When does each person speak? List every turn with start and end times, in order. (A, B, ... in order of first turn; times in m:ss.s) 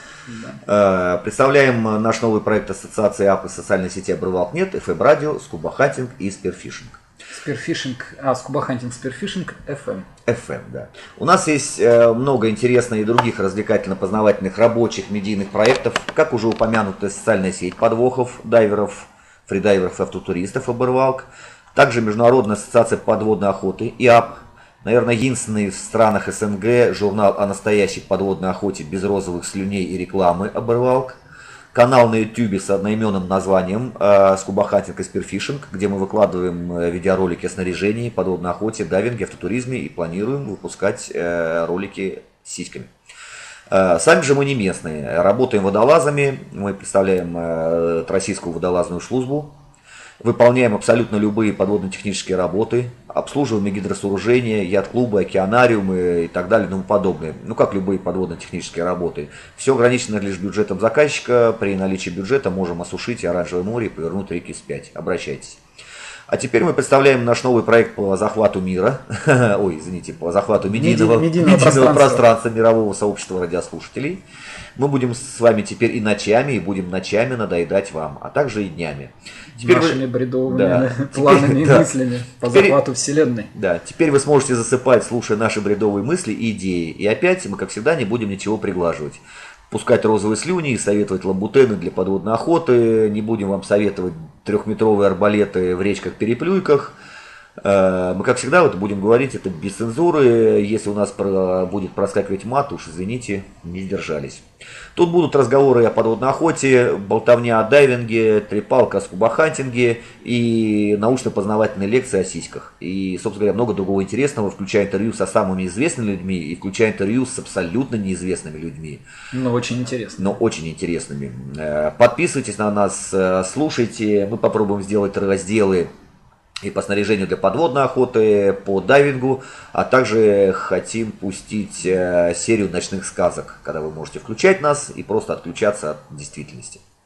0:00.3-0:00.6 A
0:00.6-0:07.0 B
0:07.3-0:10.0 A
0:10.2-0:31.2 B
0:31.7-0:42.9 B
0:43.7-0:49.5 B
0:50.2-1:05.6 B
1:06.3-1:14.2 B
1:10.7-1:12.2 A
1:14.8-1:21.9 B
1:19.6-1:23.5 A
1:22.5-1:22.8 B
1:23.5-1:36.9 B
1:37.6-1:44.4 B
1:44.9-1:59.0 B
1:59.3-2:00.4 A
2:00.2-2:05.9 B
2:06.6-2:16.8 B